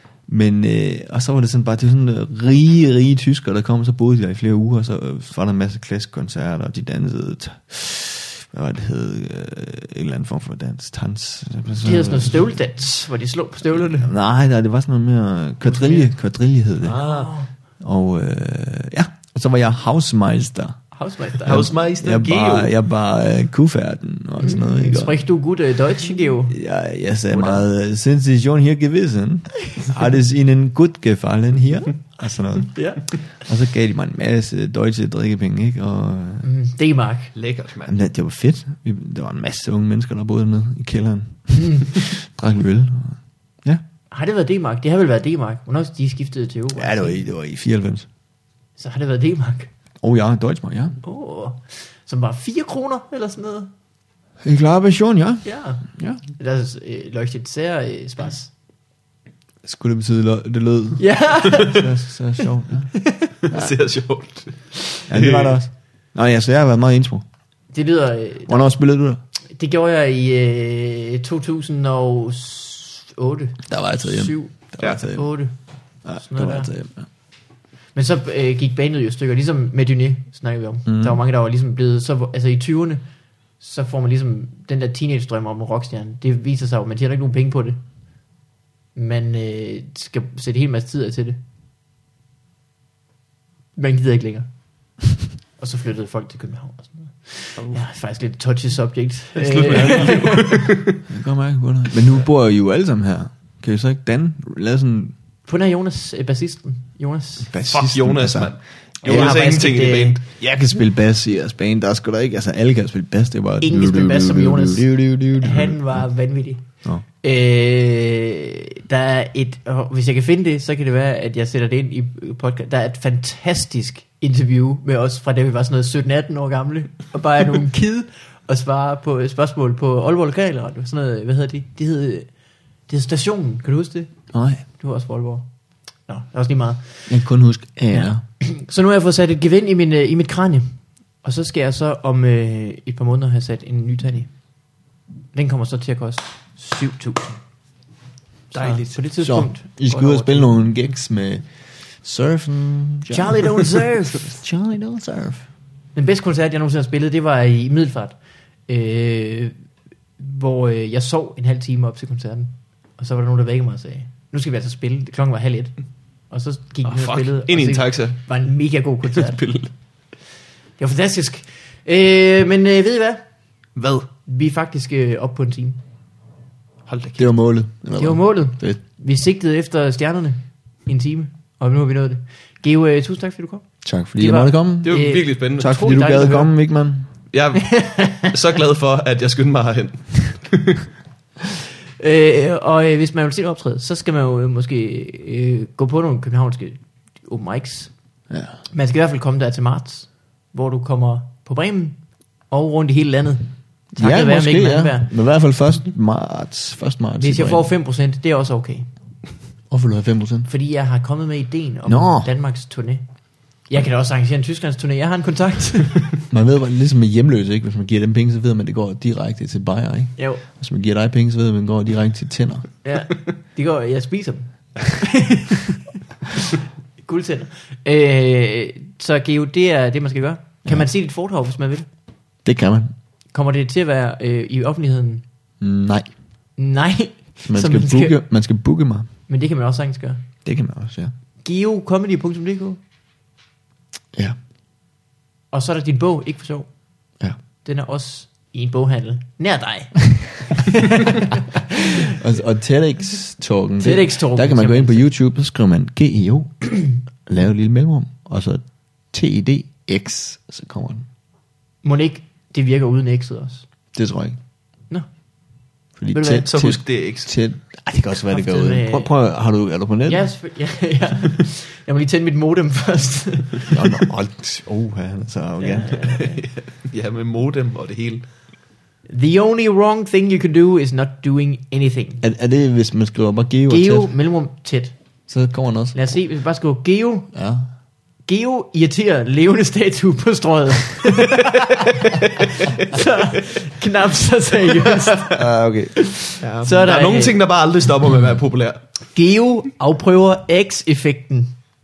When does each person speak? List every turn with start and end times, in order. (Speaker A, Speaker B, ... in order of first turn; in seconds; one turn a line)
Speaker A: 0.3-12.5
Speaker B: 11.8-14.1
Speaker A: 13.7-17.0
Speaker B: 15.6-16.1
Speaker C: 16.8-17.3
Speaker B: 17.0-17.5
Speaker A: 17.8-20.8
Speaker B: 20.9-21.7
Speaker A: 21.4-25.2
Speaker C: 21.4-22.7
Speaker B: 24.4-26.6
Speaker A: 26.5-32.8
Speaker B: 27.3-27.6
Speaker B: 32.7-33.0
Speaker A: 33.4-36.5
Speaker B: 36.4-37.3
Speaker C: 37.3-37.9
Speaker A: 37.9-43.8
Speaker B: 41.5-41.9
Speaker B: 44.1-47.2
Speaker A: 46.7-48.1
Speaker B: 48.8-49.7
Speaker A: 50.0-51.0
Speaker B: 51.0-53.7
Speaker A: 54.4-56.2
Speaker B: 55.4-55.9
Speaker B: 56.4-58.5
Speaker A: 59.6-62.9
Speaker B: 61.0-61.9
Speaker C: 61.5-61.8
Speaker B: 62.9-63.4
Speaker C: 63.5-65.6
Speaker A: 65.1-67.2
Speaker B: 67.7-68.5
Speaker A: 68.5-69.2
Speaker B: 69.5-75.5
Speaker A: 73.7-75.3
Speaker A: 76.0-77.0
Speaker B: 76.2-76.7
Speaker B: 77.9-83.0
Speaker A: 80.9-81.2
Speaker B: 83.6-87.8
Speaker B: 88.9-91.4
Speaker B: 93.8-94.5
Speaker B: 95.6-100.6
Speaker C: 99.3-101.0
Speaker A: 99.7-100.1
Speaker A: 101.1-105.1
Speaker B: 105.5-107.5
Speaker A: 107.5-108.5
Speaker C: 107.6-110.2
Speaker B: 109.0-110.2
Speaker A: 109.0-109.3
Speaker A: 110.4-116.0
Speaker B: 113.6-116.6
Speaker B: 117.2-132.3
Speaker B: 132.9-134.1
Speaker A: 134.3-134.6
Speaker B: 134.7-135.4
Speaker B: 136.1-137.2
Speaker A: 137.1-138.2
Speaker B: 137.9-144.3
Speaker B: 145.3-147.4
Speaker C: 148.5-148.9
Speaker B: 148.5-150.5
Speaker A: 149.2-155.4
Speaker B: 153.1-154.3
Speaker B: 155.9-158.1
Speaker B: 158.7-159.5
Speaker B: 160.2-165.7
Speaker B: 166.3-169.4
Speaker C: 166.8-168.2
Speaker C: 169.1-169.7
Speaker B: 170.8-173.2
Speaker C: 173.8-174.1
Speaker B: 174.2-175.8
Speaker C: 176.9-177.3
Speaker A: 177.2-178.8
Speaker B: 177.9-186.5
Speaker A: 183.8-187.1
Speaker C: 184.8-185.7
Speaker C: 187.3-190.8
Speaker B: 187.6-188.3
Speaker B: 192.0-197.9
Speaker A: 198.3-198.6
Speaker B: 198.7-205.1
Speaker A: 203.9-207.7
Speaker B: 207.2-208.8
Speaker A: 209.7-210.5
Speaker B: 210.5-213.0
Speaker A: 211.8-212.3
Speaker B: 213.7-216.0
Speaker A: 216.3-222.7
Speaker B: 220.2-220.4
Speaker B: 222.8-225.8
Speaker B: 226.4-231.9
Speaker A: 232.4-232.9
Speaker B: 233.3-235.2
Speaker A: 235.6-236.1
Speaker B: 236.6-238.2
Speaker A: 237.5-239.1
Speaker B: 239.3-240.2
Speaker A: 240.4-241.1
Speaker B: 241.4-242.8
Speaker B: 245.5-246.7
Speaker B: 247.6-252.1
Speaker A: 252.0-261.1
Speaker B: 253.8-255.0
Speaker B: 261.8-263.6
Speaker A: 263.9-264.4
Speaker A: 266.0-270.3
Speaker B: 266.1-266.4
Speaker C: 266.4-267.3
Speaker B: 268.3-269.1
Speaker B: 270.1-273.8
Speaker A: 273.7-276.0
Speaker B: 275.6-276.4
Speaker C: 276.1-278.2
Speaker B: 279.1-282.2
Speaker A: 282.2-284.1
Speaker B: 283.7-284.9
Speaker A: 285.3-286.2
Speaker B: 285.9-287.3
Speaker A: 287.3-287.7
Speaker B: 288.3-295.4
Speaker C: 292.6-293.0
Speaker A: 295.3-296.1
Speaker B: 295.9-297.4
Speaker C: 296.4-298.8
Speaker B: 299.1-301.6